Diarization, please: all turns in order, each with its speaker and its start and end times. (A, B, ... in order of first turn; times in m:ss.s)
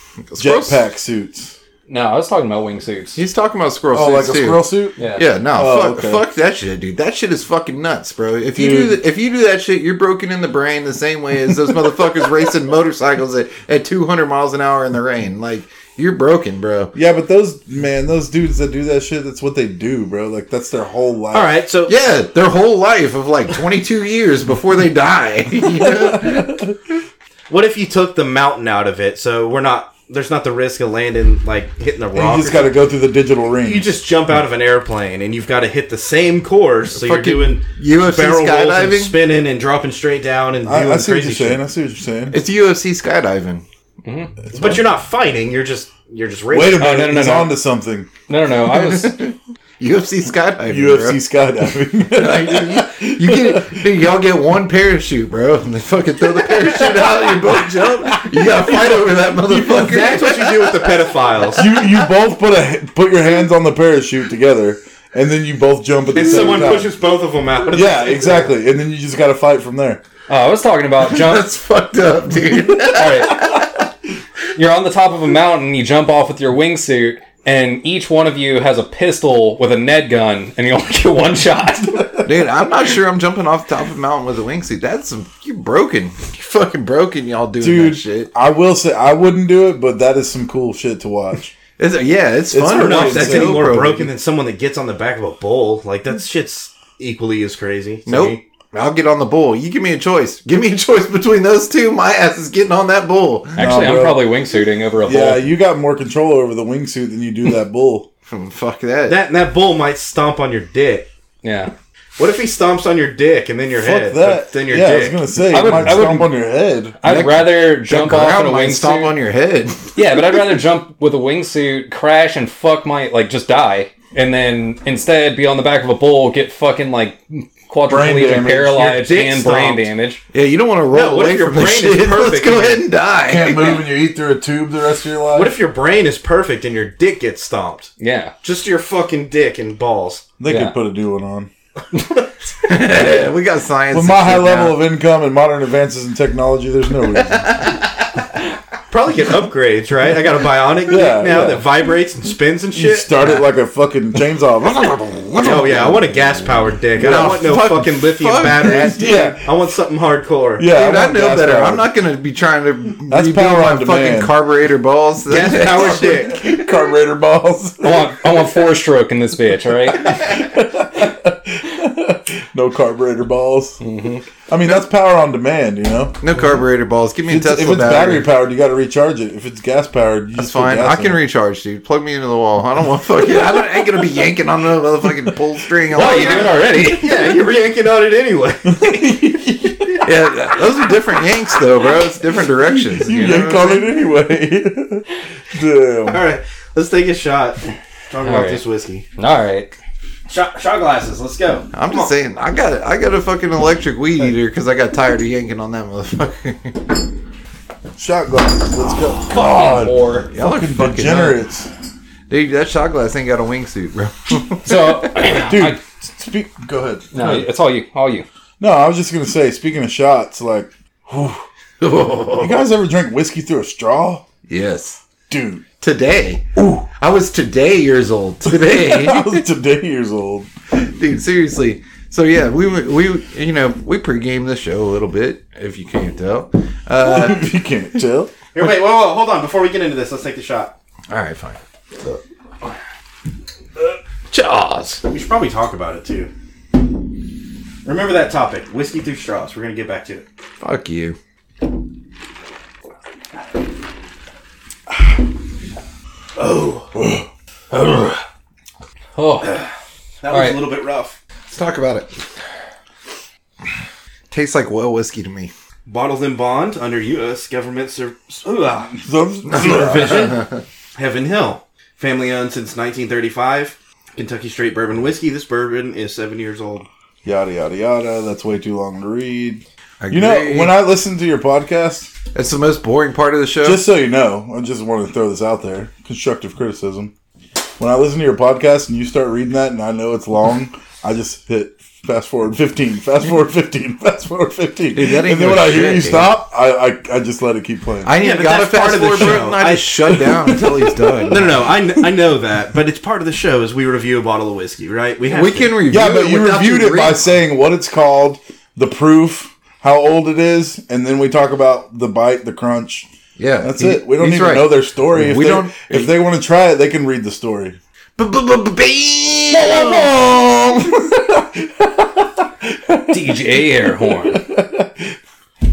0:00.3-0:00.8 A
0:00.4-0:01.5 B
0:01.9-0:03.2 C
0:03.2-0:16.9 A
0:03.9-0:05.0 B
0:05.5-0:06.2 B
0:08.5-0:09.0 B
0:16.9-0:21.5 B
0:21.3-0:21.9 D
0:21.9-0:26.6 A
0:25.8-0:26.7 B
0:27.5-0:32.7 D
0:32.1-0:33.9 B
0:33.6-0:41.6 D
0:36.9-0:39.1 A
0:40.6-0:42.4 B
0:42.3-0:43.6 A
0:44.0-0:44.3 C
0:44.5-0:44.8 B
0:44.5-0:46.9 D
0:46.5-0:48.1 B
0:46.8-0:47.5 C
0:48.3-0:49.2 C
0:48.6-0:51.2 A
0:50.7-0:53.9 B
0:52.1-1:02.0 A
0:56.7-0:59.5 B
0:59.5-1:01.7 D
1:01.5-1:06.9 B
1:06.1-1:08.5 D
1:07.7-1:10.0 B
1:10.3-1:11.4 C
1:11.0-1:13.8 A
1:12.9-1:13.6 C
1:14.5-1:22.2 C
1:22.2-1:28.3 A
1:27.6-1:31.5 B
1:31.8-1:34.1 A
1:32.5-1:33.9 B
1:32.6-1:38.4 D
1:38.1-1:43.6 A
1:43.6-1:44.3 B
1:43.6-1:45.5 C
1:45.0-1:48.1 B
1:48.3-1:49.2 A
1:49.1-1:51.1 D
1:51.4-1:51.7 C
1:52.2-1:55.2 D
1:53.7-1:57.0 B
1:55.5-1:56.3 C
1:57.0-1:59.1 C
1:57.0-1:59.9 A
1:59.9-2:10.2 C
2:07.9-2:09.0 B
2:08.9-2:09.9 D
2:10.3-2:13.8 A
2:10.9-2:12.8 D
2:13.2-2:15.6 B
2:15.3-2:17.9 D
2:18.0-2:18.3 C
2:18.4-2:20.2 D
2:20.4-2:21.5 B
2:20.5-2:20.8 C
2:22.6-2:24.8 A
2:23.9-2:27.6 B
2:27.2-2:27.8 A
2:28.9-2:33.4 D
2:30.9-2:31.7 B
2:32.7-2:35.9 B
2:35.4-2:40.7 D
2:35.4-2:36.0 A
2:37.0-2:39.3 A
2:37.0-2:37.3 B
2:38.8-2:39.4 B
2:40.6-2:41.8 B
2:40.7-2:46.3 A
2:43.1-2:44.3 B
2:45.2-2:46.4 D
2:45.5-2:48.3 B
2:47.8-2:50.3 C
2:50.0-2:53.8 B
2:53.8-2:54.2 C
2:54.5-2:56.2 B
2:56.2-2:58.2 A
2:57.2-3:01.2 B
3:00.3-3:06.9 A
3:05.9-3:07.1 C
3:06.0-3:09.2 D
3:08.6-3:10.1 B
3:10.0-3:13.9 A
3:12.7-3:16.2 B
3:16.0-3:19.0 D
3:18.2-3:18.6 C
3:19.2-3:19.8 C
3:20.3-3:22.1 D
3:21.7-3:27.0 A
3:28.0-3:31.7 B
3:29.2-3:30.3 C
3:30.3-3:31.4 A
3:32.3-3:35.4 A
3:34.6-3:35.8 C
3:35.4-3:37.5 B
3:37.1-3:38.2 C
3:38.6-3:41.4 B
3:41.8-3:42.6 A
3:42.4-3:44.2 B
3:44.5-3:45.0 A
3:45.3-3:45.6 B
3:45.8-3:49.4 A
3:46.6-3:46.8 B
3:48.5-3:50.5 B
3:50.7-3:57.5 A
3:57.0-3:58.3 B
3:58.5-4:00.7 D
4:01.1-4:01.6 A
4:04.3-4:05.0 A
4:05.0-4:06.3 D
4:07.8-4:10.2 D
4:10.6-4:11.2 A
4:16.4-4:16.9 D
4:16.9-4:17.2 B
4:17.7-4:18.2 C
4:19.2-4:19.6 C
4:20.2-4:21.2 D
4:20.3-4:20.6 C
4:21.5-4:22.1 A
4:24.3-4:25.5 A
4:25.8-4:28.9 D
4:29.0-4:30.3 B
4:29.4-4:30.6 A
4:29.5-4:36.9 D
4:37.2-4:42.1 B
4:40.0-4:40.7 A
4:42.3-4:43.8 A
4:43.6-4:47.1 B
4:47.8-4:58.1 B
4:54.9-4:56.3 A
4:58.0-5:01.6 A
4:58.2-5:00.3 D
5:00.2-5:02.0 B
5:01.3-5:05.8 D
5:05.3-5:07.2 A
5:05.9-5:13.1 B
5:13.4-5:16.1 A
5:13.6-5:17.8 B
5:18.2-5:21.1 A
5:19.6-5:20.0 B
5:21.1-5:25.1 B
5:23.1-5:24.4 C